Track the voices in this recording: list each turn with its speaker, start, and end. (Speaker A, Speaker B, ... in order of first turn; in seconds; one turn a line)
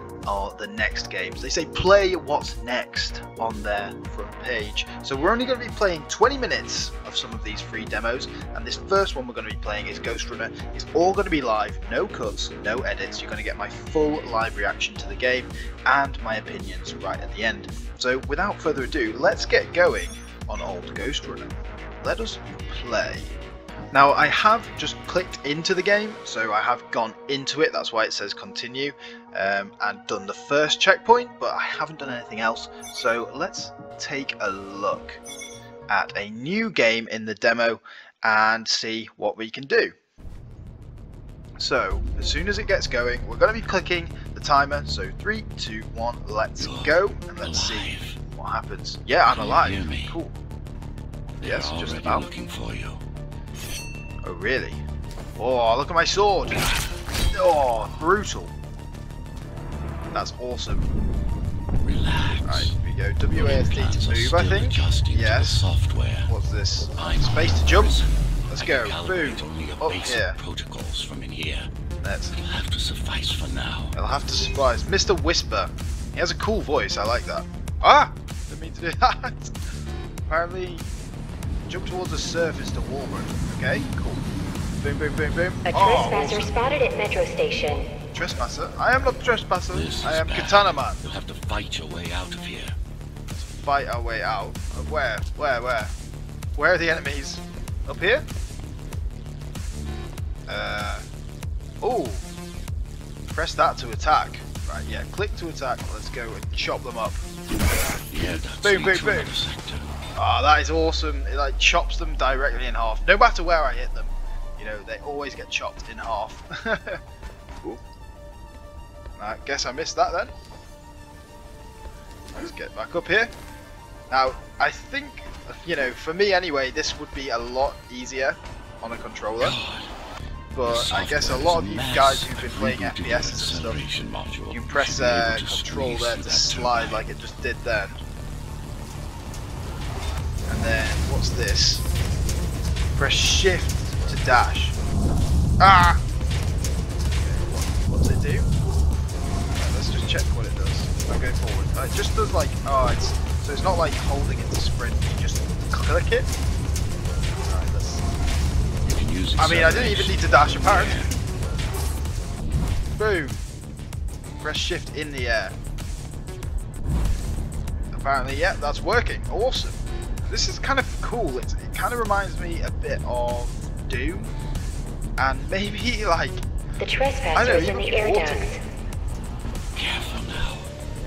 Speaker A: 0.3-23.3
Speaker A: 23.9-35.2
Speaker A: 35.9-40.0
Speaker A: 41.6-50.4
Speaker B: 46.6-48.2
Speaker B: 49.3-50.2
Speaker A: 51.4-52.3
Speaker B: 51.4-53.0
Speaker A: 54.2-54.8
Speaker A: 55.4-56.6
Speaker B: 56.5-57.0
Speaker A: 57.3-58.5
Speaker A: 60.1-60.9
Speaker B: 61.8-62.7
Speaker A: 62.4-65.7
Speaker B: 63.3-66.3
Speaker A: 66.3-68.0
Speaker B: 67.0-71.7
Speaker A: 68.5-70.4
Speaker A: 72.0-72.4
Speaker B: 72.3-74.0
Speaker A: 74.0-79.6
Speaker A: 80.3-80.9
Speaker A: 81.7-84.2
Speaker A: 84.8-86.5
Speaker C: 85.7-87.9
Speaker A: 88.1-91.0
Speaker B: 89.7-92.8
Speaker A: 93.3-95.9
Speaker A: 96.6-98.3
Speaker A: 100.5-101.0
Speaker A: 101.8-102.2
Speaker A: 103.3-107.2
Speaker B: 108.1-109.9
Speaker A: 108.6-109.3
Speaker A: 110.2-117.0
Speaker A: 119.2-120.3
Speaker A: 122.3-123.3
Speaker A: 124.1-129.6
Speaker B: 129.4-129.9
Speaker A: 130.5-133.8
Speaker B: 130.6-137.1
Speaker A: 134.5-138.0
Speaker A: 140.5-141.8
Speaker A: 142.9-144.8
Speaker A: 145.6-146.0
Speaker A: 147.2-148.5
Speaker A: 149.6-156.3
Speaker A: 157.5-158.1
Speaker B: 158.8-161.1
Speaker A: 159.4-161.1
Speaker A: 163.0-163.4
Speaker A: 164.4-165.5
Speaker A: 167.9-174.3
Speaker A: 175.2-176.4
Speaker C: 176.8-178.6
Speaker A: 177.3-178.6
Speaker B: 179.8-180.7